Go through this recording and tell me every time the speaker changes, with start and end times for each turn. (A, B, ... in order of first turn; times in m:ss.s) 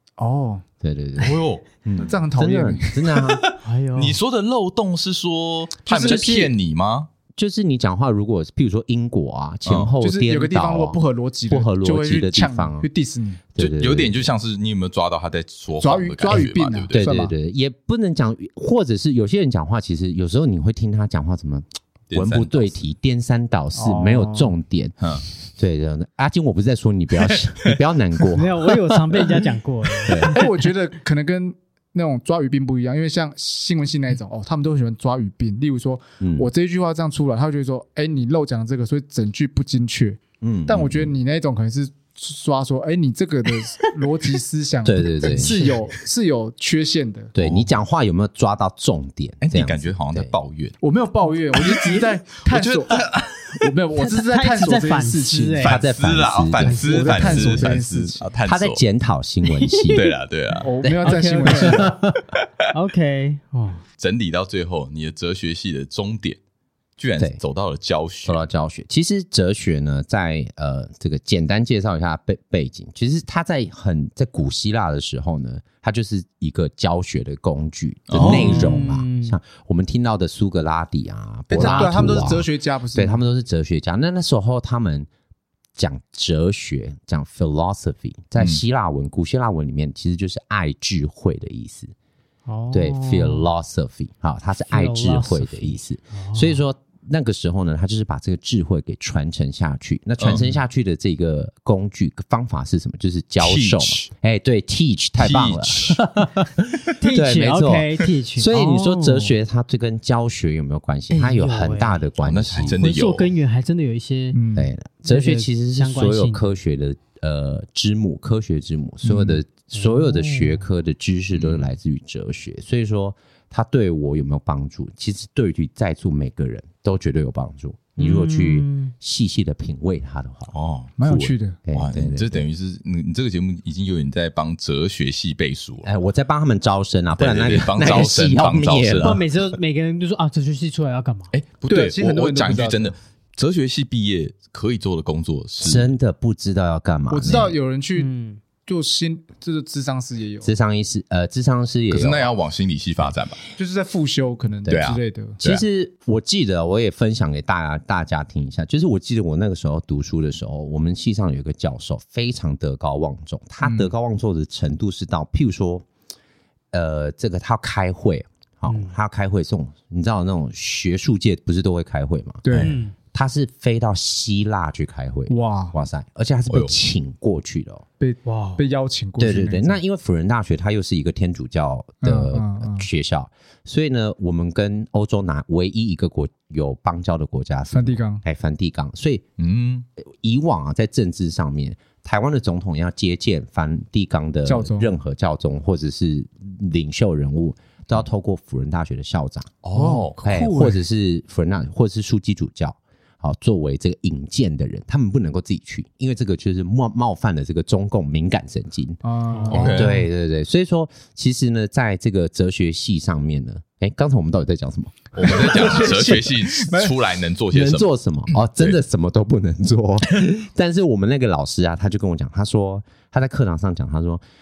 0:00.2-0:00.6 A
0:00.8-0:03.4 B
0:01.2-0:02.1 C
0:02.0-0:02.9 A
0:03.0-0:07.1 C
0:03.6-0:04.2 D
0:05.9-0:06.5 A
0:05.9-0:06.5 B
0:07.3-0:12.9 B
0:09.7-0:09.9 C
0:10.0-0:13.4 A
0:13.6-0:14.3 B
0:13.6-0:17.0 C
0:15.8-0:17.3 A
0:16.9-0:25.0 B
0:22.1-0:22.7 C
0:23.8-0:24.5 A
0:25.6-0:28.6 B
0:27.3-0:27.8 C
0:28.3-0:30.4 D
0:30.1-0:30.4 B
0:30.3-0:47.3 A
0:36.2-0:36.5 B
0:40.4-0:41.1 B
0:44.8-0:45.7 B
0:47.4-0:50.3 B
0:47.4-0:47.7 C
0:49.4-0:50.8 C
0:50.8-0:55.8 A
0:51.6-0:53.7 C
0:54.0-0:55.8 D
0:55.6-0:56.8 B
0:55.6-0:58.8 C
0:56.6-0:57.6 D
0:56.6-0:58.3 A
0:58.4-1:00.1 B
0:59.6-1:00.0 D
0:59.9-1:00.7 C
1:00.6-1:01.8 A
1:00.8-1:02.2 B
1:01.0-1:02.0 D
1:02.7-1:03.8 D
1:04.0-1:06.4 C
1:07.0-1:08.4 C
1:08.2-1:25.1 B
1:18.1-1:18.8 C
1:18.2-1:19.4 D
1:21.5-1:23.2 A
1:21.6-1:21.9 C
1:25.8-1:31.9 B
1:32.5-1:33.5 D
1:32.7-1:52.8 B
1:34.7-1:36.6 D
1:40.2-1:40.6 C
1:43.4-1:44.1 C
1:45.2-1:46.1 C
1:47.0-1:49.3 D
1:51.1-1:52.0 D
1:52.2-1:53.3 C
1:52.7-1:54.4 D
1:54.3-1:54.7 A
1:54.5-2:10.5 B
1:55.1-1:56.5 D
1:59.0-1:59.4 A
1:59.8-2:00.6 D
2:01.3-2:01.7 C
2:08.0-2:08.9 D
2:10.5-2:15.9 C
2:11.0-2:11.6 A
2:11.6-2:12.5 B
2:15.8-2:19.2 B
2:17.2-2:19.2 C
2:19.0-2:21.3 D
2:21.3-2:25.9 C
2:21.7-2:23.0 A
2:25.6-2:27.6 B
2:27.1-2:28.1 A
2:28.0-2:28.4 D
2:28.7-2:30.5 A
2:30.4-2:32.3 B
2:31.9-2:33.4 C
2:33.6-2:35.4 A
2:34.7-2:35.6 C
2:35.4-2:45.8 B
2:43.6-2:43.9 A
2:46.7-2:52.4 B
2:48.7-2:48.9 D
2:52.4-2:52.8 A
2:52.6-2:52.9 D
2:53.1-2:57.8 B
2:55.3-2:55.8 A
2:58.0-2:59.8 A
2:58.2-2:58.6 D
2:59.2-3:09.2 B
3:02.0-3:02.9 A
3:07.7-3:08.2 A
3:09.4-3:09.9 C
3:10.0-3:19.6 B
3:14.5-3:14.9 A
3:19.6-3:20.2 C
3:19.7-3:20.8 A
3:20.2-3:35.9 B
3:29.0-3:30.0 A
3:29.3-3:30.0 D
3:29.5-3:30.0 C
3:35.2-3:38.8 C
3:35.2-3:37.0 A
3:37.5-3:44.2 B